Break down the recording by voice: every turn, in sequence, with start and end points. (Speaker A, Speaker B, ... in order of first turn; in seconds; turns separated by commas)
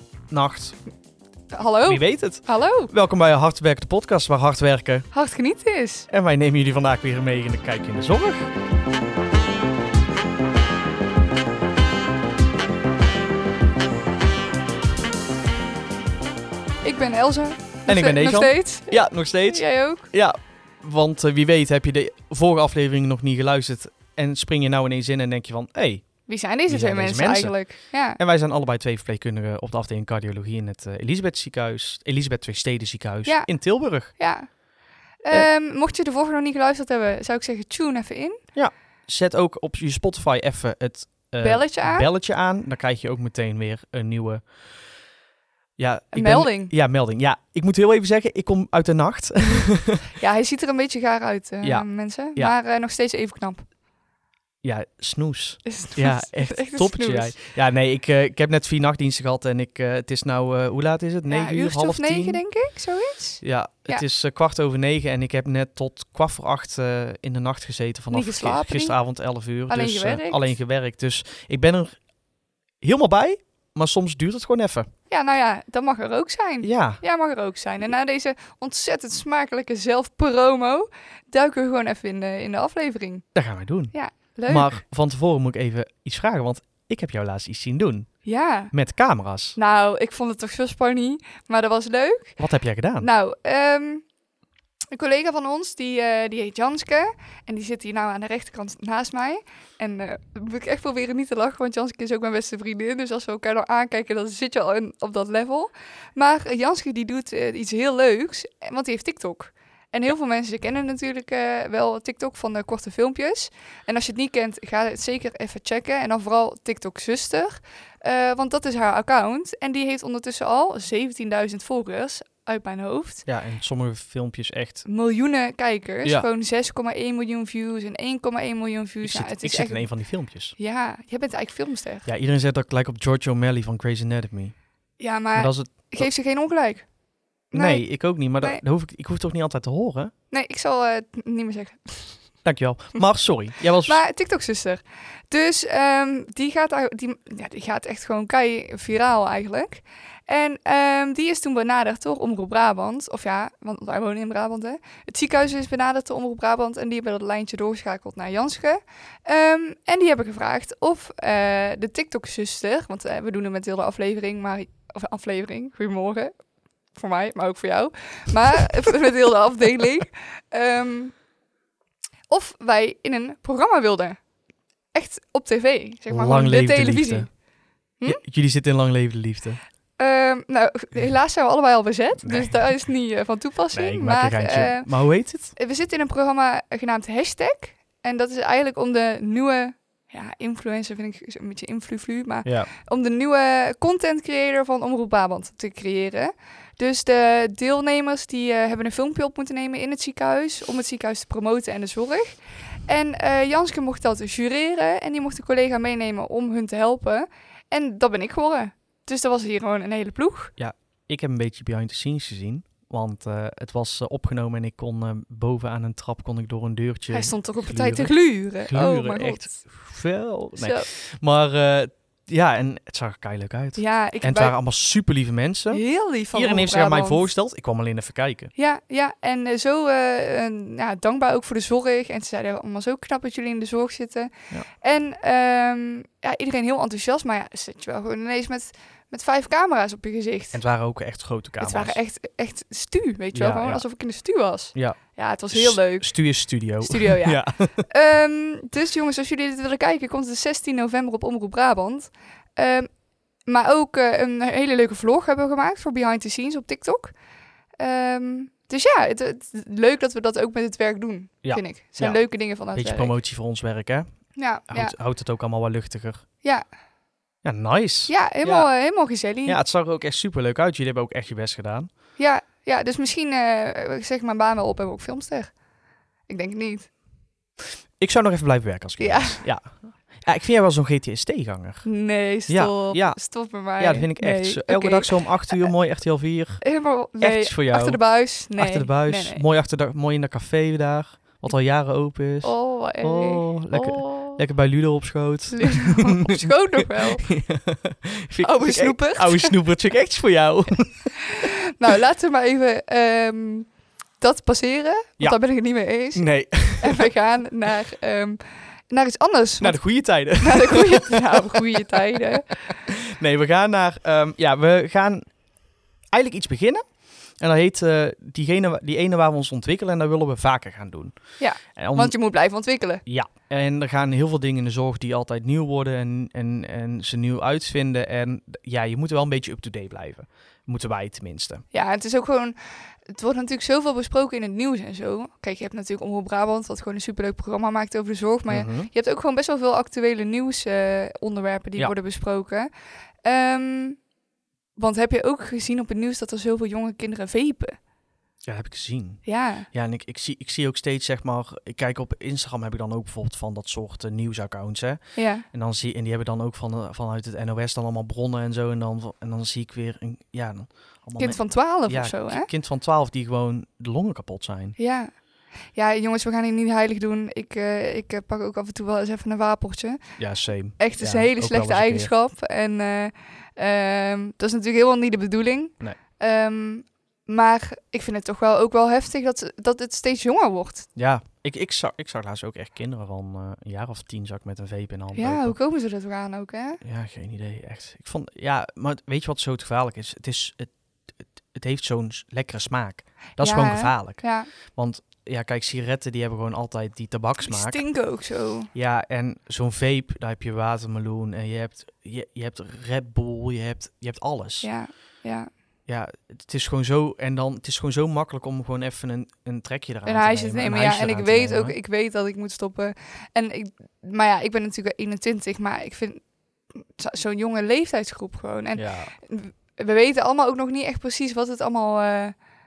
Speaker A: 0.3-0.8, Speaker B: 1.5-2.9, Speaker A: 1.9-5.1, Speaker B: 5.1-6.1, Speaker A: 6.1-8.5, Speaker B: 16.8-20.1, Speaker A: 17.9-26.1, Speaker B: 26.3-28.2, Speaker A: 26.7-27.6, Speaker A: 28.2-34.1, Speaker B: 34.1-34.5, Speaker B: 35.2-38.4, Speaker A: 38.5-44.5, Speaker B: 41.4-42.1, Speaker A: 45.8-50.1, Speaker B: 46.1-46.7, Speaker B: 50.2-53.7, Speaker A: 51.6-52.5, Speaker A: 54.6-62.4, Speaker B: 55.6-57.4, Speaker B: 61.3-64.0, Speaker A: 63.4-72.0, Speaker B: 68.1-69.0, Speaker B: 69.7-70.5, Speaker A: 72.8-74.9, Speaker B: 75.1-83.2, Speaker A: 76.6-77.0, Speaker A: 83.3-83.9, Speaker B: 83.9-84.8, Speaker A: 84.5-88.1, Speaker B: 88.2-88.7, Speaker A: 88.7-89.6, Speaker B: 89.6-92.4, Speaker A: 92.4-93.1, Speaker B: 93.0-94.0, Speaker B: 94.9-123.3, Speaker A: 123.3-124.9, Speaker B: 124.9-129.9, Speaker A: 129.0-130.6, Speaker B: 130.6-132.1, Speaker A: 132.1-134.6, Speaker B: 135.0-136.9, Speaker A: 135.3-136.1, Speaker B: 137.5-137.8, Speaker A: 137.5-140.1, Speaker B: 140.3-142.2, Speaker A: 142.4-144.0, Speaker B: 143.8-166.3, Speaker B: 166.9-171.1, Speaker B: 172.3-174.2, Speaker B: 174.9-177.3, Speaker A: 176.1-177.3, Speaker A: 178.1-179.6, Speaker B: 180.0-184.9, Speaker A: 182.2-182.7, Speaker A: 183.7-185.5, Speaker B: 185.6-210.5, Speaker A: 192.4-192.7, Speaker A: 210.6-228.5, Speaker B: 217.1-219.6, Speaker B: 220.6-220.9, Speaker B: 223.8-224.6, Speaker B: 225.7-227.2, Speaker B: 228.6-240.6, Speaker A: 240.5-242.0, Speaker B: 241.6-246.1, Speaker A: 243.3-243.8, Speaker A: 245.5-247.9, Speaker B: 246.8-252.9, Speaker B: 253.4-257.1, Speaker B: 257.8-263.1, Speaker A: 261.4-262.2, Speaker A: 262.7-264.1, Speaker B: 264.4-264.9, Speaker A: 264.7-266.2, Speaker A: 267.4-268.7, Speaker B: 268.1-269.6, Speaker A: 269.5-271.9, Speaker B: 272.2-275.5, Speaker B: 276.3-276.9, Speaker A: 278.0-281.9, Speaker B: 279.0-279.4, Speaker B: 281.9-285.7, Speaker A: 282.5-286.6, Speaker B: 286.6-289.4, Speaker A: 287.2-288.0, Speaker A: 288.6-301.5, Speaker B: 292.4-294.4, Speaker B: 295.5-297.3, Speaker B: 298.4-299.5, Speaker B: 301.2-312.5, Speaker A: 306.1-307.1, Speaker A: 309.6-315.3, Speaker A: 316.1-321.2, Speaker B: 321.4-323.0, Speaker A: 321.7-322.1, Speaker A: 323.1-331.6, Speaker B: 331.7-332.6, Speaker B: 333.1-342.7, Speaker A: 338.5-338.9, Speaker B: 343.2-344.0, Speaker B: 344.8-347.8, Speaker A: 348.5-355.0, Speaker B: 349.2-349.7, Speaker B: 355.2-355.4, Speaker A: 355.5-364.8, Speaker B: 361.2-362.5, Speaker B: 364.8-365.1, Speaker B: 365.8-370.0, Speaker A: 370.2-372.1, Speaker B: 370.8-380.9, Speaker A: 381.0-385.6, Speaker B: 385.1-386.8, Speaker A: 386.8-390.7, Speaker A: 391.5-394.2, Speaker B: 393.4-394.5, Speaker A: 394.8-397.8, Speaker B: 397.4-398.7, Speaker A: 398.7-404.7, Speaker B: 404.6-405.5, Speaker A: 405.9-411.8, Speaker B: 410.1-416.2, Speaker B: 416.8-422.4, Speaker A: 418.8-419.1